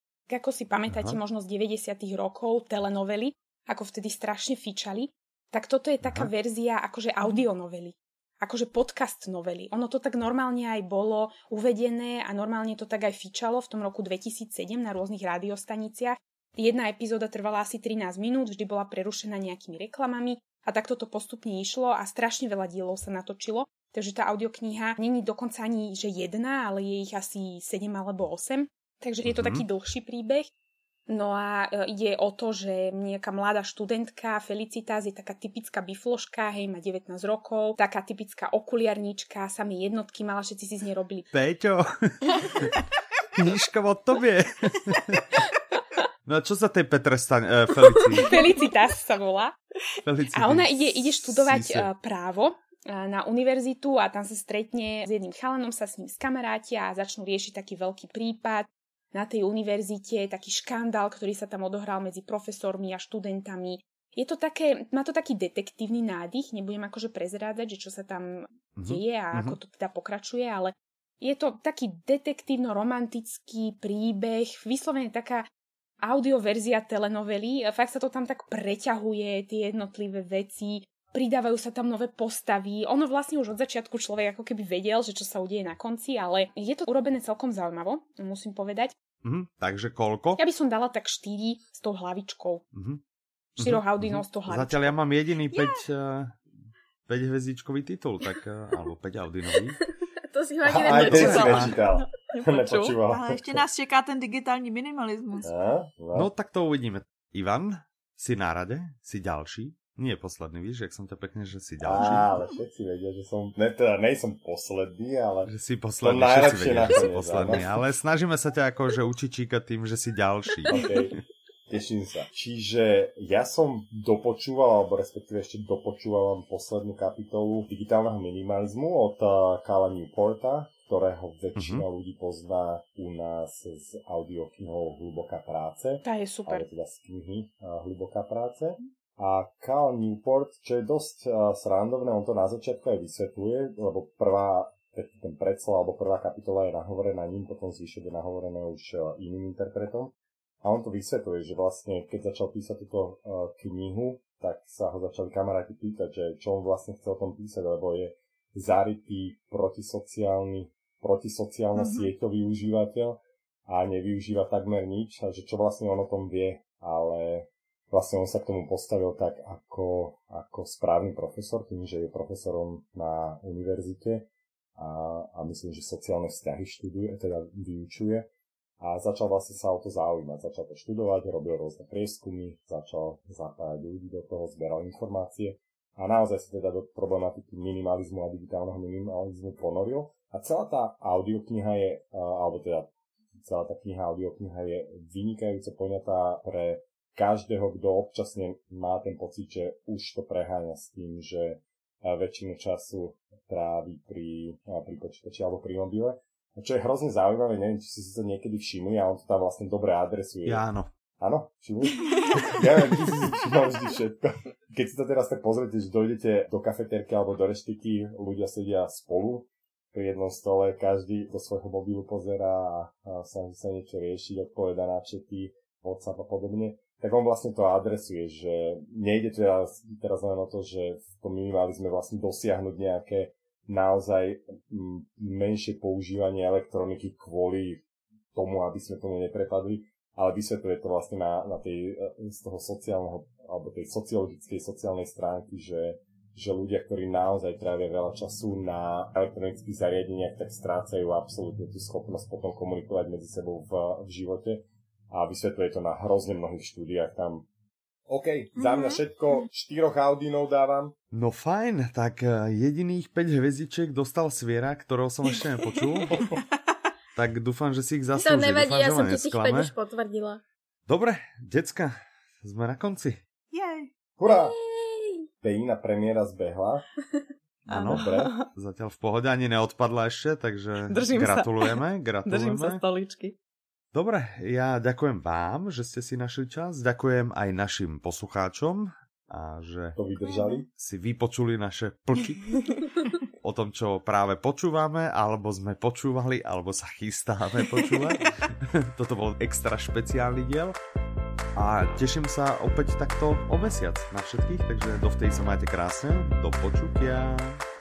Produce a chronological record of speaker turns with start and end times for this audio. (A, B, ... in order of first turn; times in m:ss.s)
0:00.3-0:30.5 A
0:00.9-0:01.2 B
0:06.0-0:06.3 B
0:29.2-0:29.6 B
0:31.1-0:41.3 A
0:41.3-0:42.7 B
0:43.3-0:45.2 B
0:46.2-0:48.4 B
0:48.2-0:49.5 A
0:50.0-0:51.9 B
0:50.3-1:15.4 A
1:08.8-1:09.6 B
1:16.0-1:28.9 A
1:29.2-1:30.4 B
1:30.4-1:32.6 A
1:32.7-1:33.0 B
1:33.6-1:36.4 B
1:33.6-1:34.9 A
1:37.1-1:39.8 B
1:39.8-1:41.8 C
1:40.6-1:43.6 D
1:40.8-1:43.0 E
1:41.2-1:41.7 B
1:43.0-1:45.5 F
1:45.4-1:46.3 D
1:46.1-1:52.3 B
1:51.8-1:57.8 D
1:55.4-2:00.7 B
2:00.7-2:01.2 D
2:01.7-2:58.3 D
2:11.6-2:11.8 B
2:16.0-2:16.6 A
2:41.7-2:42.1 F
2:58.8-3:12.9 D
3:13.4-3:30.6 D
3:30.4-3:30.9 B
3:31.2-3:57.8 D
3:58.3-4:17.4 D
4:18.1-4:20.9 D
4:18.5-4:19.5 F
4:21.1-4:26.1 B
4:26.1-4:26.9 F
4:27.1-4:29.7 B
4:28.2-4:30.4 C
4:30.9-4:33.2 B
4:33.5-4:33.9 F
4:34.2-4:34.6 D
4:34.3-4:35.2 C
4:35.4-4:36.8 D
4:37.6-4:38.3 D
4:37.7-4:38.5 E
4:37.8-4:42.8 B
4:40.8-4:43.4 E
4:43.9-4:50.0 B
4:50.0-4:50.6 D
4:50.7-4:52.4 B
4:53.4-4:58.2 B
4:57.6-4:58.0 E
4:58.8-5:00.8 B
5:01.5-5:07.6 B